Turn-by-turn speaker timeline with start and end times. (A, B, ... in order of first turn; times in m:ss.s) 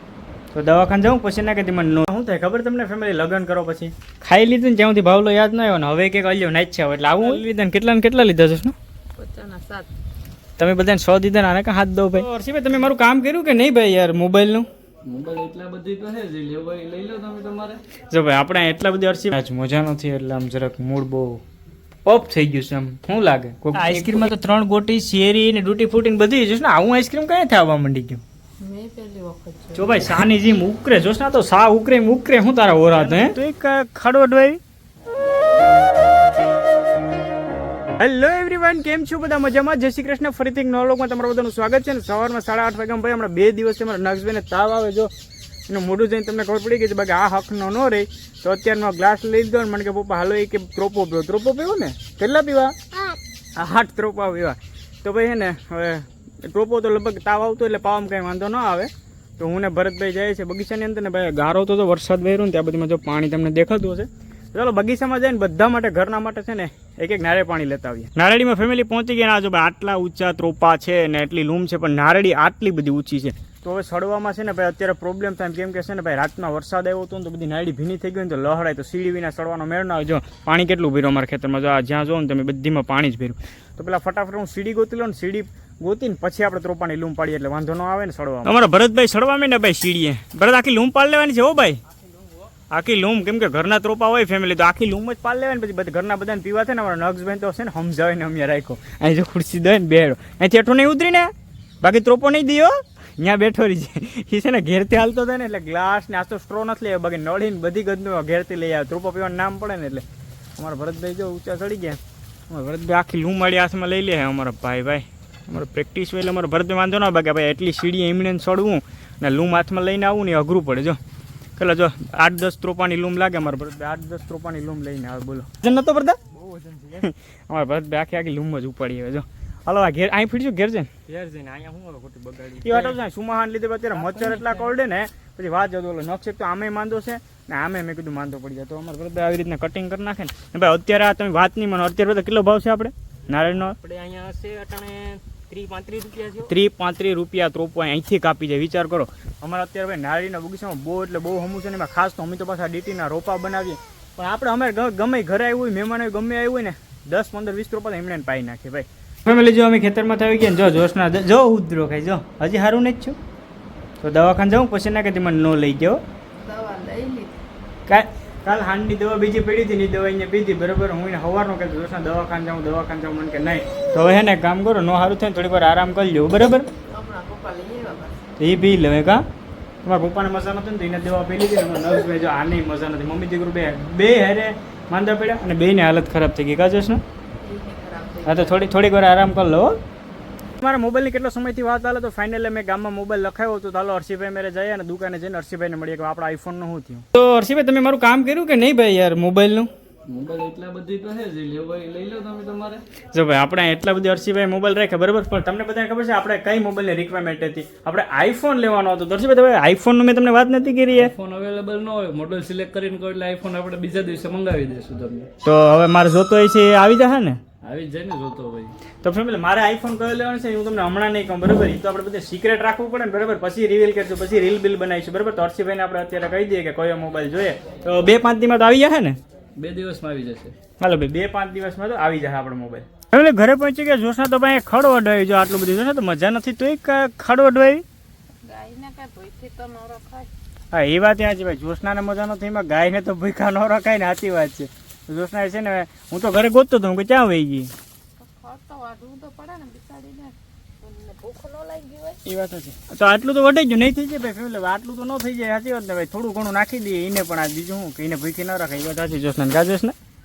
0:00.5-0:08.8 A
0:09.2-0:09.9 B
0:10.6-0:14.7 A
0:15.0-0:17.8 C
0:18.1-0:21.4 A
0:22.1-0:28.2 A
0:28.6-0:30.0 B
0:29.7-0:34.6 A
0:38.0-0:45.1 A
0:45.7-0:52.8 A
0:53.6-1:31.8 A
1:32.7-1:50.1 A
1:50.6-2:01.0 A
2:01.6-2:06.2 A
2:06.4-2:06.8 C
2:06.9-2:10.9 A
2:11.1-2:13.0 C
2:12.6-2:23.8 A
2:14.0-2:14.5 C
2:23.6-2:26.5 C
2:26.5-2:43.2 A
2:44.0-2:46.0 A
2:46.4-2:47.4 B
2:47.9-2:56.7 A
2:56.8-2:58.2 B
2:58.4-2:59.2 A
2:59.8-3:07.0 A
3:07.4-3:08.7 B
3:08.2-3:09.8 A
3:10.6-3:19.7 A
3:20.1-3:22.8 C
3:23.1-3:31.1 A
3:30.9-3:35.3 C
3:35.4-3:37.4 A
3:37.6-3:38.7 C
3:39.0-3:49.2 A
3:49.6-3:50.6 C
3:50.8-3:57.8 A
3:58.4-4:00.3 B
4:00.7-4:07.7 A
4:08.2-4:12.2 B
4:12.2-4:20.0 A